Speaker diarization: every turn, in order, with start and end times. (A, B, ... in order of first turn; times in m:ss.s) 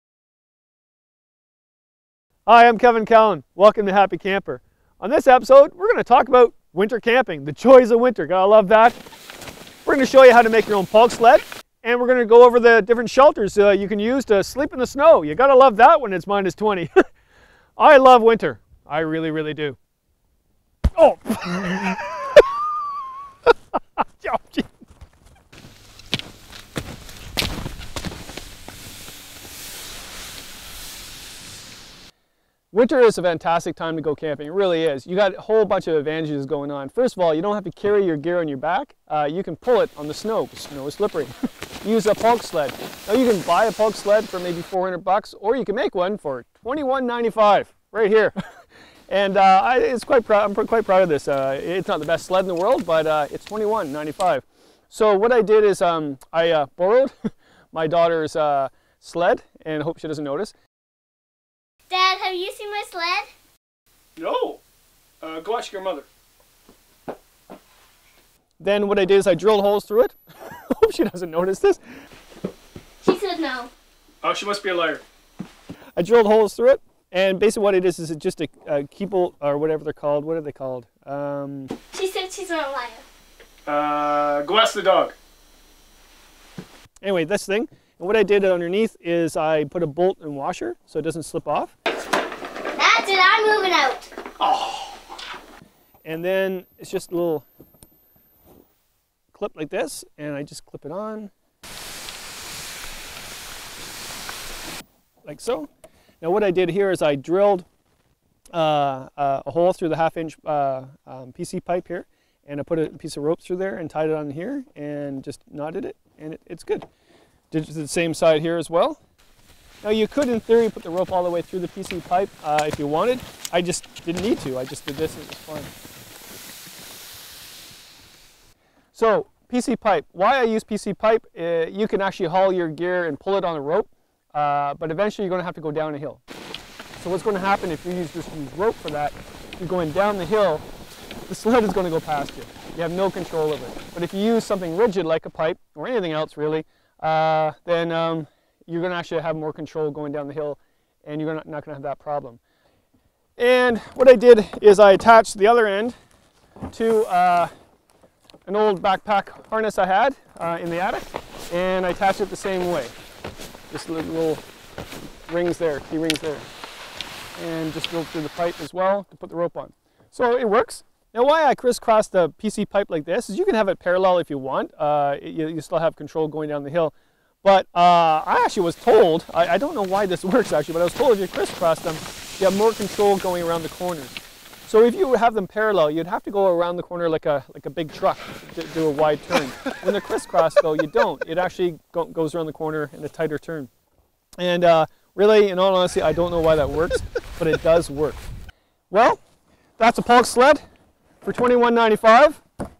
0:02.5-0:09.0 A
0:09.8-0:17.0 A
0:17.8-0:19.8 A
0:21.0-0:22.1 A
0:24.2-0:24.7 A
0:32.7-0:48.4 A
0:49.1-1:00.5 A
1:01.9-1:03.3 B
1:04.2-1:04.6 A
1:05.2-1:06.1 A
1:08.6-1:11.8 A
1:13.0-1:13.7 B
1:14.2-1:15.0 A
1:16.0-1:21.7 A
1:21.9-1:23.0 B
1:23.7-1:25.2 A
1:27.0-1:31.8 A
1:32.8-1:34.1 B
1:34.4-1:34.9 A
1:36.0-1:37.5 A
1:39.3-1:41.3 A
1:45.2-1:45.7 A
1:46.2-1:47.7 A
1:48.5-1:56.9 A
1:57.5-1:59.0 A
1:59.8-2:05.7 A
2:08.9-2:16.2 A
2:17.0-2:20.6 A
2:21.3-2:32.4 A
2:33.4-2:36.0 A
2:36.6-2:37.5 A
2:38.5-2:42.9 A
2:43.7-2:44.4 A
2:45.3-2:46.5 A
2:47.4-3:04.2 A
3:04.7-3:13.7 A
3:14.4-3:18.2 A
3:18.9-3:19.2 A
3:19.8-3:20.6 A
3:21.2-3:22.4 A